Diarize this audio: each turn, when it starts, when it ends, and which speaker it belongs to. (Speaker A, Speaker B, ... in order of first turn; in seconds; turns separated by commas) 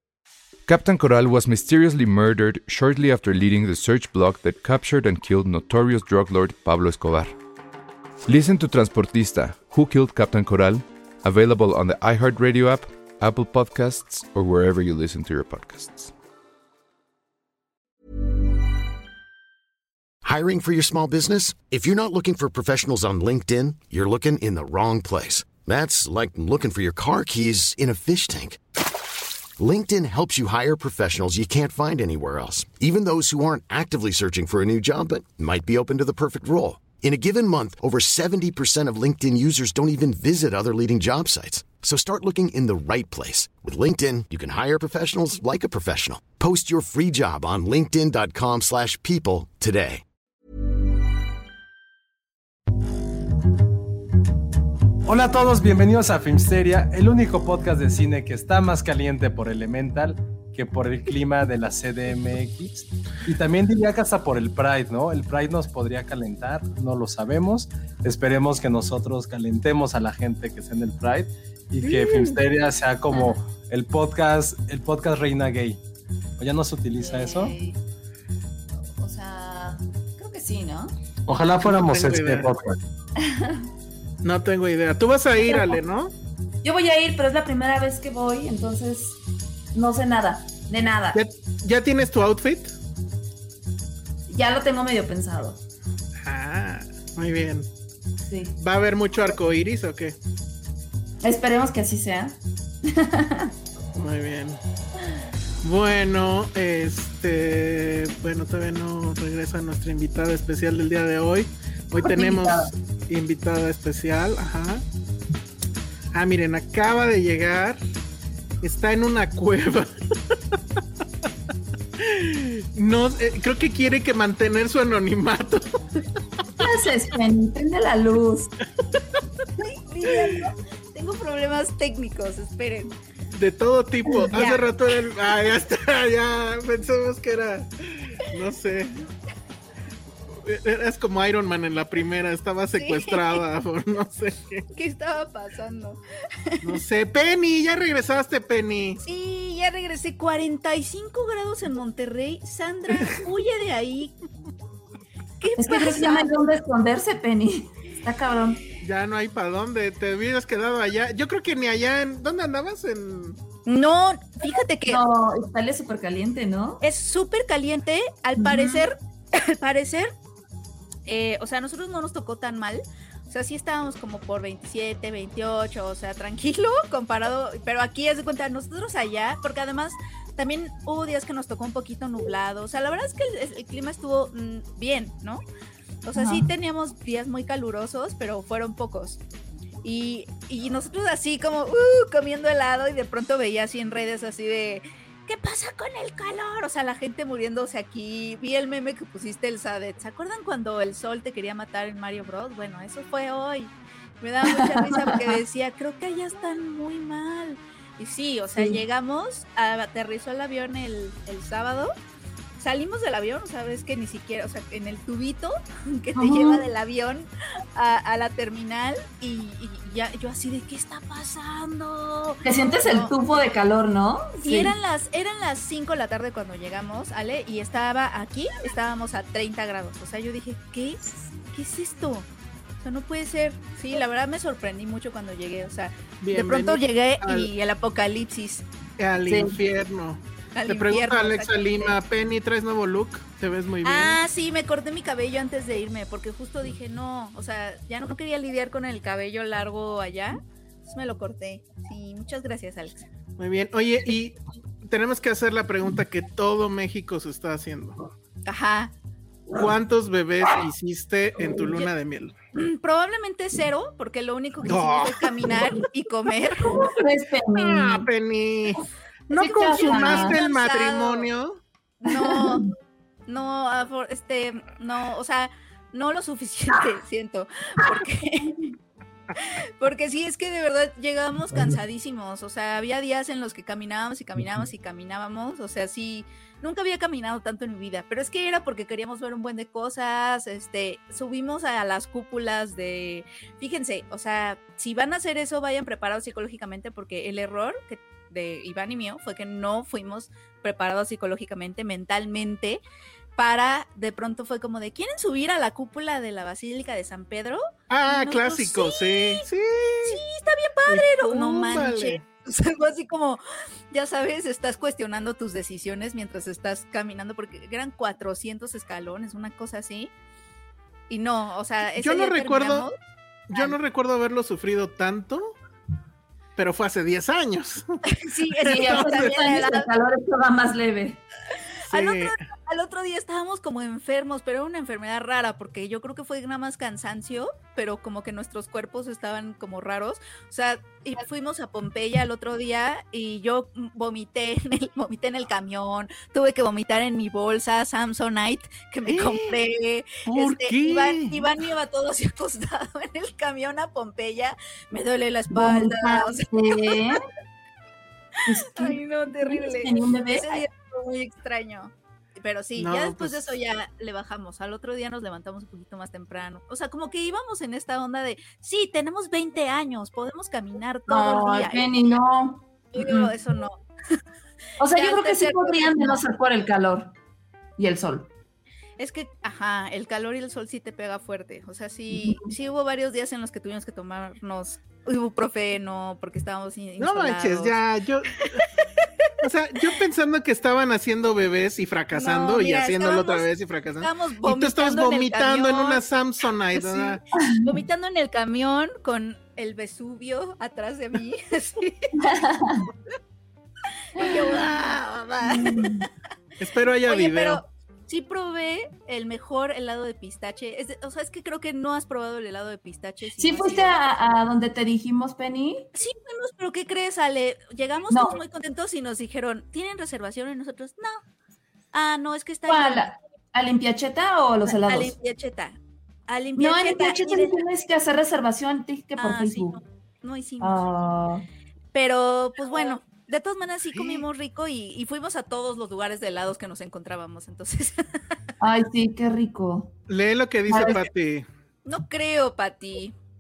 Speaker A: 0.7-7.4, Speaker A: 8.2-16.1, Speaker B: 20.2-28.6, Speaker B: 29.6-50.0, Speaker C: 55.0-75.8, Speaker D: 71.8-72.4, Speaker C: 76.4-77.6, Speaker E: 77.0-77.8, Speaker E: 79.0-80.9, Speaker C: 81.3-82.8, Speaker D: 81.6-82.5, Speaker E: 83.2-83.7, Speaker D: 84.2-86.1, Speaker E: 85.5-85.8, Speaker E: 86.6-89.2, Speaker E: 89.7-91.2, Speaker D: 91.1-92.8, Speaker E: 94.3-95.6, Speaker D: 96.2-97.7, Speaker E: 98.3-98.5, Speaker D: 98.6-100.2, Speaker E: 101.2-103.5, Speaker D: 104.0-104.6, Speaker D: 105.6-114.8, Speaker E: 112.0-112.7, Speaker D: 116.1-117.8, Speaker D: 118.6-119.9, Speaker D: 122.0-125.8, Speaker E: 126.6-128.5, Speaker F: 129.6-133.0, Speaker D: 133.3-139.0, Speaker F: 134.3-134.7, Speaker D: 140.4-144.7, Speaker F: 142.8-143.4, Speaker F: 144.7-146.8, Speaker D: 146.6-149.0, Speaker F: 149.0-154.1, Speaker F: 155.4-156.3, Speaker E: 155.6-158.6, Speaker D: 158.8-163.4, Speaker F: 163.7-165.0, Speaker E: 164.9-166.8, Speaker F: 166.8-170.1, Speaker E: 168.4-168.9, Speaker F: 171.1-185.4, Speaker F: 186.0-189.2, Speaker E: 186.2-186.5, Speaker F: 189.8-211.9, Speaker E: 204.5-205.3, Speaker E: 208.5-208.8, Speaker F: 212.6-223.1, Speaker E: 216.2-216.7, Speaker E: 222.4-224.8, Speaker F: 224.4-232.3, Speaker F: 232.8-238.7, Speaker D: 236.2-237.5, Speaker D: 239.0-244.2, Speaker E: 239.3-239.6, Speaker F: 240.6-242.0, Speaker F: 243.8-253.1, Speaker D: 253.4-258.0, Speaker F: 258.5-258.9, Speaker D: 259.5-262.3, Speaker F: 262.5-266.9, Speaker D: 264.6-265.6, Speaker E: 266.7-268.1, Speaker D: 267.5-271.6, Speaker E: 269.3-270.4, Speaker F: 269.6-271.3, Speaker F: 272.0-272.7, Speaker E: 272.1-272.7, Speaker F: 273.3-278.6, Speaker F: 279.3-302.8, Speaker F: 303.4-309.5, Speaker D: 307.9-310.2, Speaker F: 310.0-320.1, Speaker D: 310.9-312.2, Speaker F: 321.1-322.9, Speaker D: 322.0-322.9, Speaker D: 323.5-325.6, Speaker D: 326.6-328.0, Speaker F: 328.1-329.9, Speaker D: 328.6-329.4, Speaker E: 328.7-331.2, Speaker F: 331.9-357.0, Speaker D: 331.9-332.4, Speaker D: 349.1-349.6, Speaker D: 350.3-351.5, Speaker E: 355.5-357.2, Speaker E: 358.5-360.6, Speaker F: 358.6-371.9, Speaker D: 362.8-363.6, Speaker E: 371.1-373.3, Speaker F: 372.9-374.2, Speaker E: 374.8-377.1, Speaker F: 374.9-376.3, Speaker E: 377.8-378.3, Speaker F: 379.0-387.8, Speaker E: 382.1-382.4, Speaker D: 387.0-388.6, Speaker D: 389.4-397.2, Speaker F: 392.1-393.5, Speaker F: 394.0-396.1, Speaker F: 396.8-402.1, Speaker E: 397.4-397.8, Speaker E: 402.2-402.9, Speaker F: 404.1-406.1, Speaker E: 404.2-404.7, Speaker E: 405.5-406.1, Speaker D: 406.6-407.6, Speaker F: 407.1-414.0, Speaker E: 413.4-415.9, Speaker F: 415.9-421.2, Speaker E: 418.1-418.4, Speaker F: 421.9-423.1, Speaker E: 422.7-425.1, Speaker F: 424.7-425.8, Speaker F: 426.3-427.6, Speaker E: 426.6-429.8, Speaker F: 429.2-430.9, Speaker E: 430.6-431.5, Speaker F: 431.9-438.2, Speaker D: 434.0-434.2, Speaker E: 438.6-439.9, Speaker D: 440.1-441.5, Speaker E: 440.7-441.0, Speaker F: 441.9-443.1